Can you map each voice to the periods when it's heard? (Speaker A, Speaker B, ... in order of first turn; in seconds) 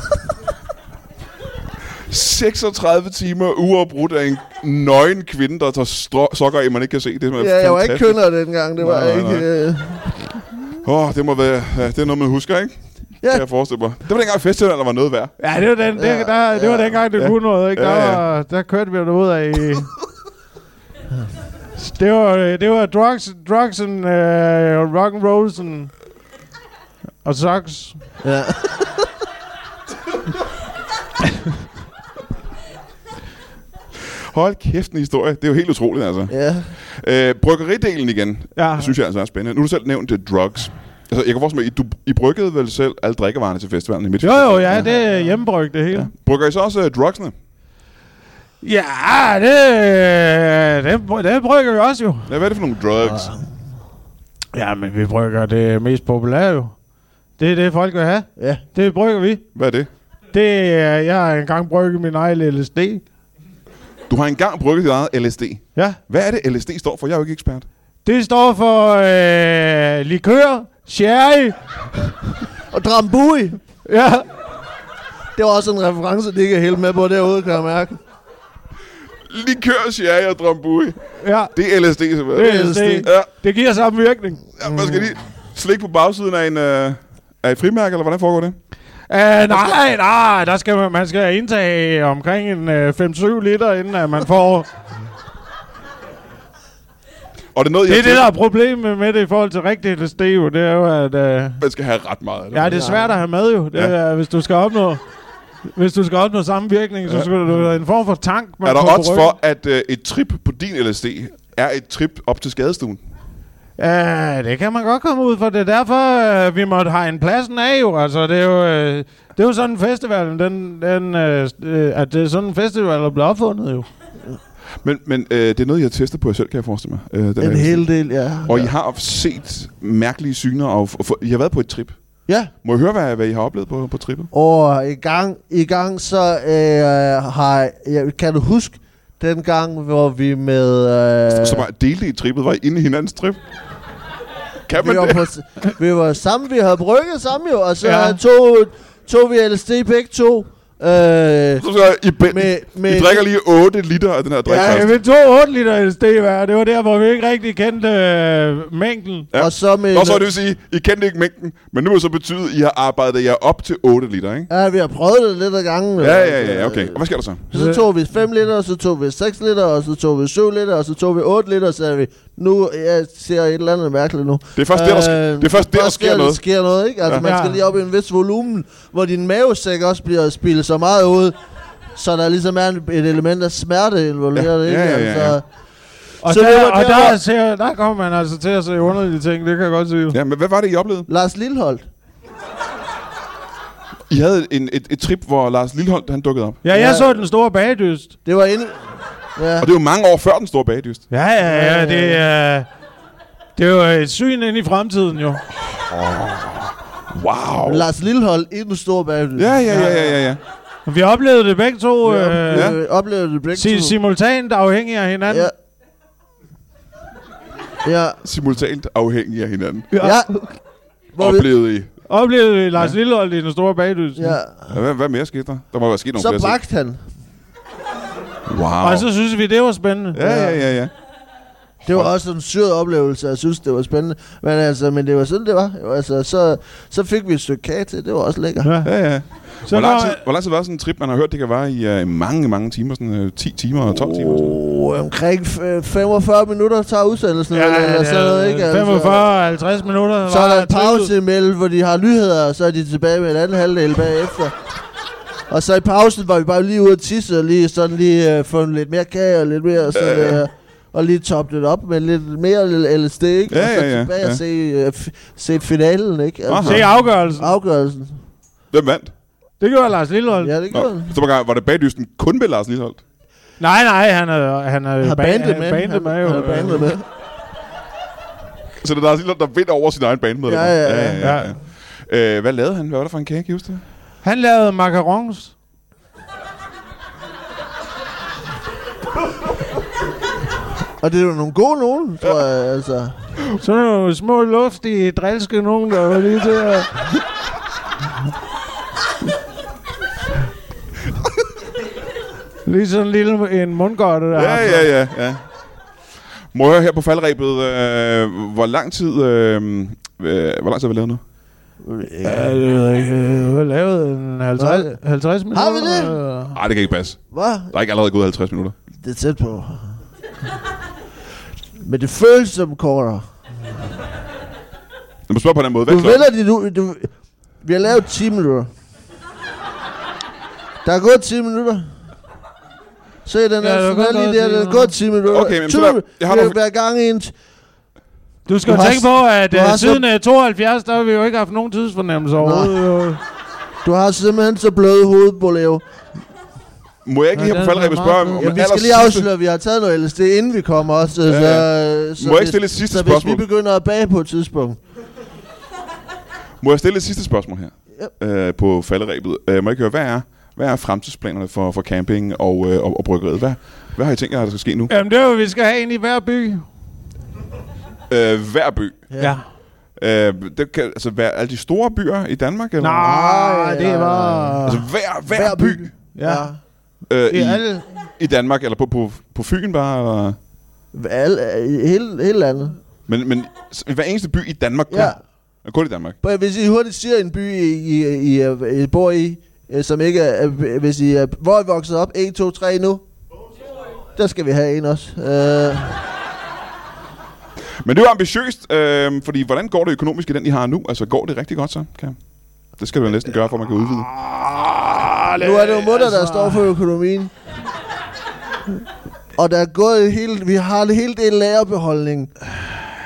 Speaker A: 2.1-8.2, 8.8-9.4, 10.8-15.3, 17.1-18.2, 34.1-44.9, 45.9-47.3, 52.3-53.3, 59.5-59.9, 64.1-67.7, 79.3-81.0, 81.5-83.3, 84.6-88.5, 97.5-98.3, 101.6-102.9, 108.6-113.0, 124.8-127.8, 128.4-132.0, 132.6-134.3, 141.3-143.4, 144.7-145.2, 151.6-154.9, 159.3-164.5, 166.0-167.4, 174.5-176.4, 184.3-185.4, 190.1-191.1, 194.1-196.6, 199.6-201.1, 205.7-206.6, 207.1-207.9, 209.3-210.4, 218.2-219.9, 221.2-221.9, 224.7-226.6, 228.5-229.1, 230.1-230.9, 231.8-232.1, 238.8-244.5, 259.9-260.4, 263.5-264.4, 266.5-266.9, 268.7-269.1, 270.7-273.0, 278.8-283.8, 304.3-305.4, 306.5-311.2, 316.5-318.7, 325.3-326.2, 335.3-336.6, 347.0-349.3, 351.3-353.4, 356.6-364.9, 368.1-369.1, 370.0-373.2, 374.6-375.9, 377.1-377.6, 378.2-380.4, 383.1-386.2, 397.8-402.2, 402.8-404.1
Speaker B: 7.4-10.2, 15.9-17.0, 28.2-29.1, 36.3-36.7, 44.7-45.1, 53.0-53.4, 58.4-58.6, 72.7-73.6, 75.3-78.0, 82.4-83.1, 84.7-85.0, 102.7-103.1, 127.4-128.7, 134.3-141.6, 144.7-151.7, 152.2-153.2, 154.4-154.9, 159.3-160.3, 164.5-167.0, 167.5-181.3, 181.9-185.4, 186.2-187.2, 191.1-191.9, 196.7-197.2, 198.2-199.7, 201.4-202.2, 207.6-210.0, 212.0-213.9, 215.3-215.5, 217.8-218.2, 220.0-220.5, 221.2-221.5, 224.2-224.8, 226.1-227.0, 230.2-230.6, 231.8-238.7, 243.9-249.2, 250.3-254.5, 255.5-268.2, 270.4-271.1, 275.0-277.0, 280.4-281.2, 291.0-293.1, 311.8-312.5, 314.6-314.9, 315.5-316.2, 317.3-317.7, 319.0-320.0, 321.8-323.2, 325.9-328.7, 330.8-331.9, 333.2-337.3, 338.6-340.0, 342.4-342.8, 343.8-345.8, 348.4-354.8, 369.1-369.4, 373.0-376.6, 380.9-382.8, 384.9-385.2, 386.2-393.0, 394.1-396.0, 405.4-407.3, 409.4-412.3
Speaker C: 15.4-19.9, 21.8-25.9, 27.2-28.0, 38.5-38.9, 44.2-46.1, 48.6-52.3, 54.5-56.7, 57.4-59.4, 60.3-63.0, 68.0-71.6, 73.8-74.2, 81.2-81.5, 82.3-84.5, 89.1-94.7, 97.9-101.6, 102.5-105.0, 105.7-109.3, 113.8-123.9, 147.8-148.2, 154.5-159.3, 167.5-167.8, 177.2-177.6, 186.2-190.2, 196.6-198.1, 201.1-202.7, 203.6-205.4, 210.8-212.7, 213.5-215.5, 219.9-220.2, 222.1-224.3, 228.8-230.2, 238.6-238.9, 239.7-240.2, 247.5-251.1, 266.6-267.5, 269.6-270.6, 273.6-276.9, 281.2-281.5, 284.2-285.5, 293.6-297.2, 302.6-304.9, 312.2-316.6, 333.6-334.9, 338.5-343.2, 347.4-348.6, 364.9-366.6, 369.2-369.4, 372.8-374.6, 376.1-376.5, 377.3-377.9, 404.1-406.7